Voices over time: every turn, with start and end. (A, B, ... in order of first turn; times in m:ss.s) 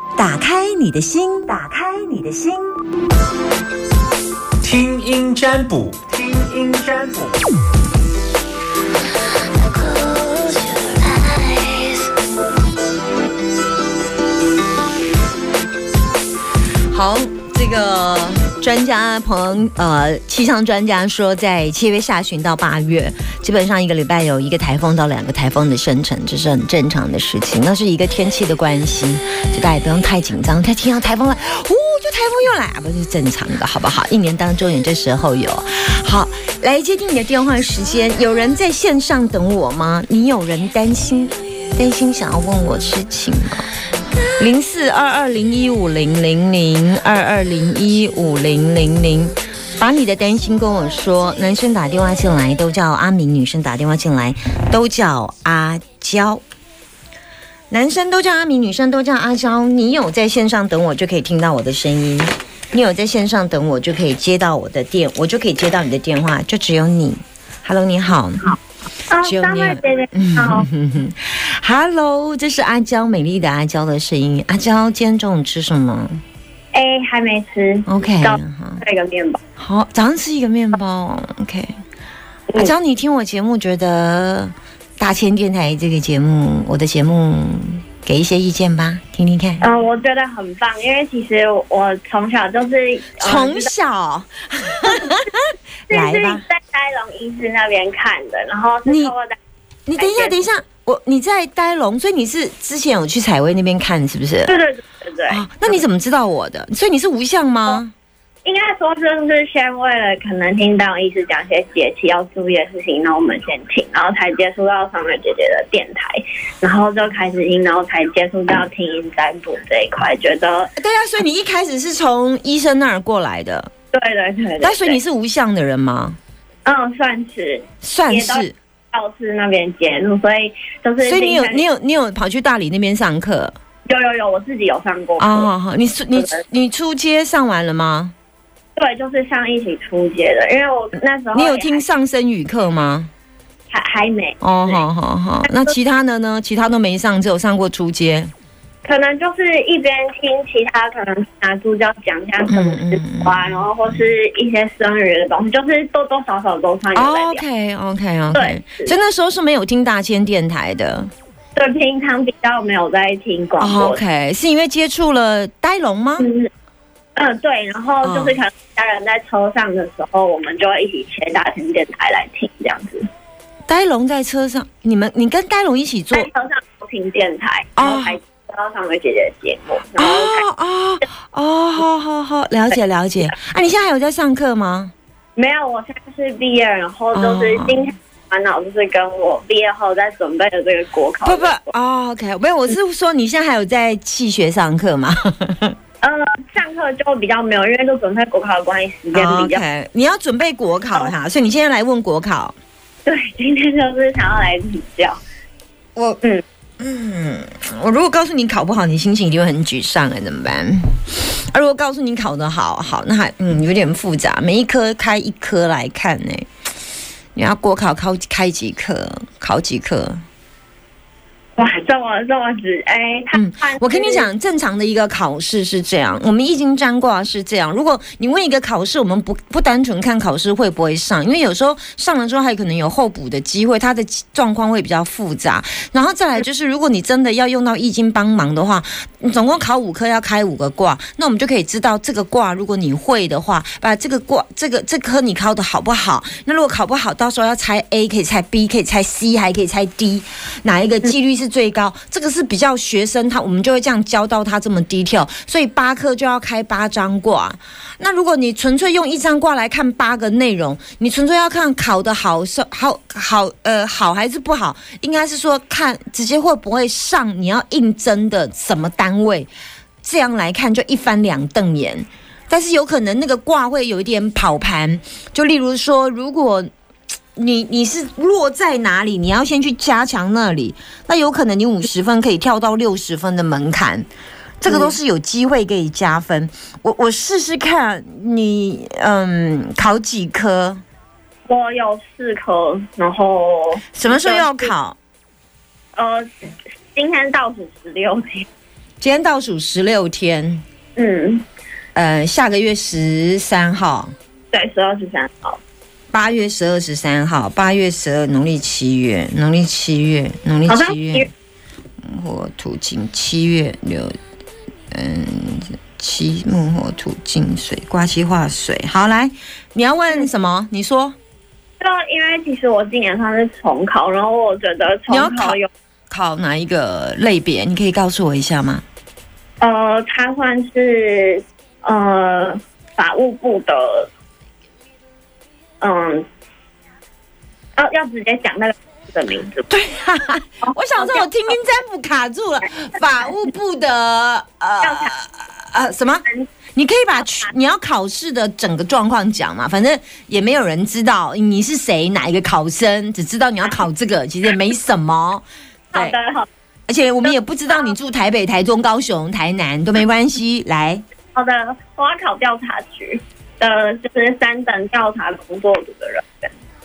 0:00.2-0:02.8 A
0:04.6-0:07.5 B
0:09.8-0:11.9 A
0:16.9-0:43.7 A
0:44.4-0:56.4 A
0:57.7-1:08.5 A
1:09.1-1:10.7 C
1:09.2-1:16.2 A
1:16.7-1:19.4 C
1:17.9-1:18.8 A
1:19.6-1:21.7 A
1:22.6-1:29.6 A
1:29.6-1:33.7 C
1:33.2-1:36.4 A
1:35.9-1:39.4 C
1:38.9-1:39.1 A
1:39.9-1:44.6 A
1:40.0-1:40.4 C
1:44.5-1:45.8 C
1:45.3-1:47.9 A
1:48.4-2:00.7 C
2:00.8-2:03.7 A
2:03.9-2:05.0 C
2:04.6-2:06.2 A
2:06.6-2:11.6 C
2:07.8-2:08.5 A
2:11.0-2:13.5 A
2:13.8-2:15.5 C
2:15.2-2:18.1 A
2:16.2-2:16.4 C
2:18.8-2:21.8 C
2:21.3-2:23.1 A
2:23.7-2:24.8 C
2:24.4-2:28.3 A
2:28.8-2:37.4 C
2:32.5-2:34.0 A
2:36.9-2:41.1 A
2:38.3-2:38.9 C
2:41.6-2:44.0 C
2:43.6-2:46.3 A
2:46.2-2:46.5 C
2:47.2-2:53.0 C
2:48.0-2:48.4 A
2:53.7-2:56.3 A
2:56.1-3:00.4 C
2:57.8-2:58.2 A
3:00.0-3:04.9 A
3:05.4-3:11.7 C
3:07.1-3:07.8 A
3:11.2-3:15.8 A
3:16.0-3:19.6 C
3:19.1-3:22.5 A
3:23.0-3:25.2 C
3:26.0-3:26.2 A
3:26.8-3:36.5 A
3:37.3-3:40.2 A
3:41.6-3:44.3 C
3:43.3-4:29.5 A
4:30.0-4:36.7 A
4:37.4-4:44.1 A
4:44.6-4:50.8 A
4:44.7-4:44.9 C
4:51.5-4:54.7 C
4:53.9-4:55.0 A
4:56.0-4:56.3 C
4:56.9-4:58.5 C
4:59.0-5:00.6 A
5:01.0-5:01.4 C
5:01.9-5:04.1 A
5:04.5-5:05.6 C
5:06.1-5:11.3 A
5:10.7-5:11.3 C
5:12.0-5:14.2 A
5:14.9-5:21.2 A
5:21.8-5:25.7 C
5:25.1-5:25.6 A
5:26.1-5:28.8 A
5:29.6-5:34.1 C
5:35.8-5:36.3 C
5:37.8-5:39.7 C
5:39.7-5:56.2 A
5:40.6-5:41.3 C
5:44.8-5:45.1 C
5:55.9-5:56.5 C
5:56.9-6:01.0 A
6:01.4-6:06.5 C